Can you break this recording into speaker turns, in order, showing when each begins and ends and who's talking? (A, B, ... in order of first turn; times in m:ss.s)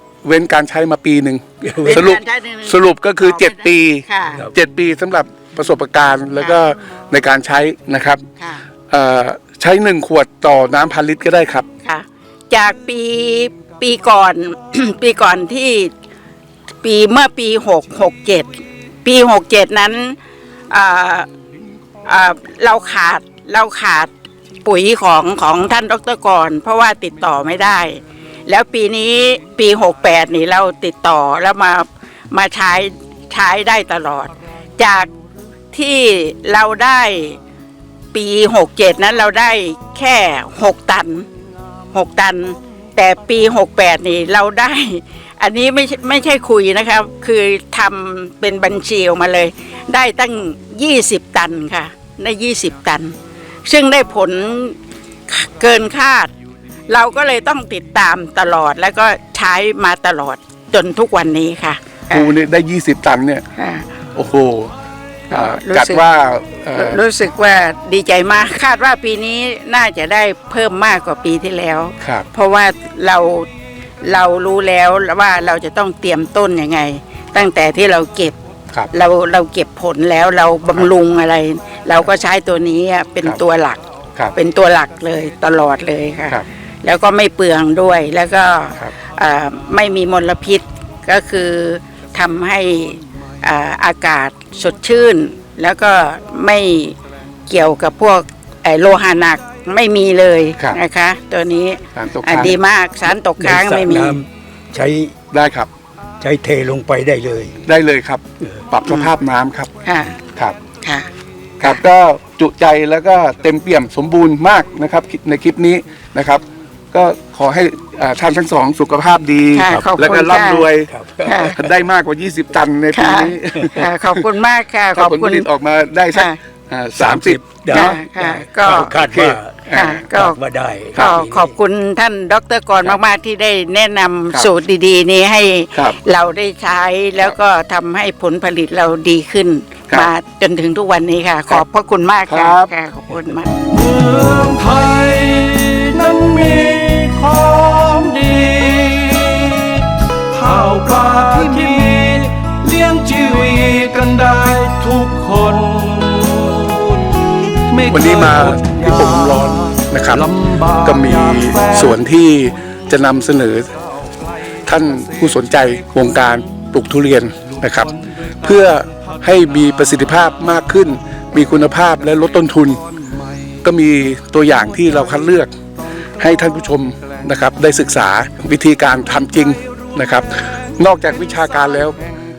0:00.2-0:08.2 A
0:01.6-0:02.1 B
0:01.8-0:04.4 C
0:08.4-0:08.6 C
0:08.9-0:11.7 A
0:11.8-0:15.9 C
0:16.8-0:20.2 C
0:20.7-0:21.3 C
0:22.0-0:24.1 C
0:24.6-0:35.1 C
0:35.7-0:37.4 C
0:38.1-0:41.3 C
0:41.9-0:53.1 C
0:53.6-0:56.3 C
0:56.9-1:02.3 C
1:02.1-1:03.4 A
1:03.6-1:03.9 C
1:04.1-1:04.7 A
1:05.3-1:06.0 C
1:05.3-1:07.0 A
1:06.7-1:13.5 C
1:12.0-1:12.3 A
1:14.0-1:18.4 C
1:18.9-1:23.8 C
1:24.3-1:37.0 C
1:37.5-1:44.2 C
1:41.9-1:42.6 A
1:43.4-1:45.2 B
1:45.3-1:45.7 A
1:46.2-1:47.6 B
1:47.6-1:49.7 A
1:49.8-1:50.2 C
1:50.8-1:51.8 C
1:51.6-2:00.9 A
1:59.5-2:00.7 C
1:59.6-2:00.0 B
2:00.9-2:01.7 B
2:01.2-2:01.6 C
2:01.5-2:04.3 A
2:02.9-2:05.5 C
2:04.9-2:07.8 A
2:07.0-2:11.6 B
2:07.7-2:08.9 C
2:08.8-2:10.0 A
2:09.7-2:10.4 C
2:10.9-2:23.5 C
2:22.3-2:22.7 A
2:23.6-2:42.0 D
2:37.9-2:40.3 A
2:40.8-2:43.7 A
2:43.7-2:50.6 D
2:44.6-2:52.8 A
2:52.9-2:53.5 D
2:53.6-2:55.5 A
2:56.2-3:02.0 A
3:01.2-3:02.1 D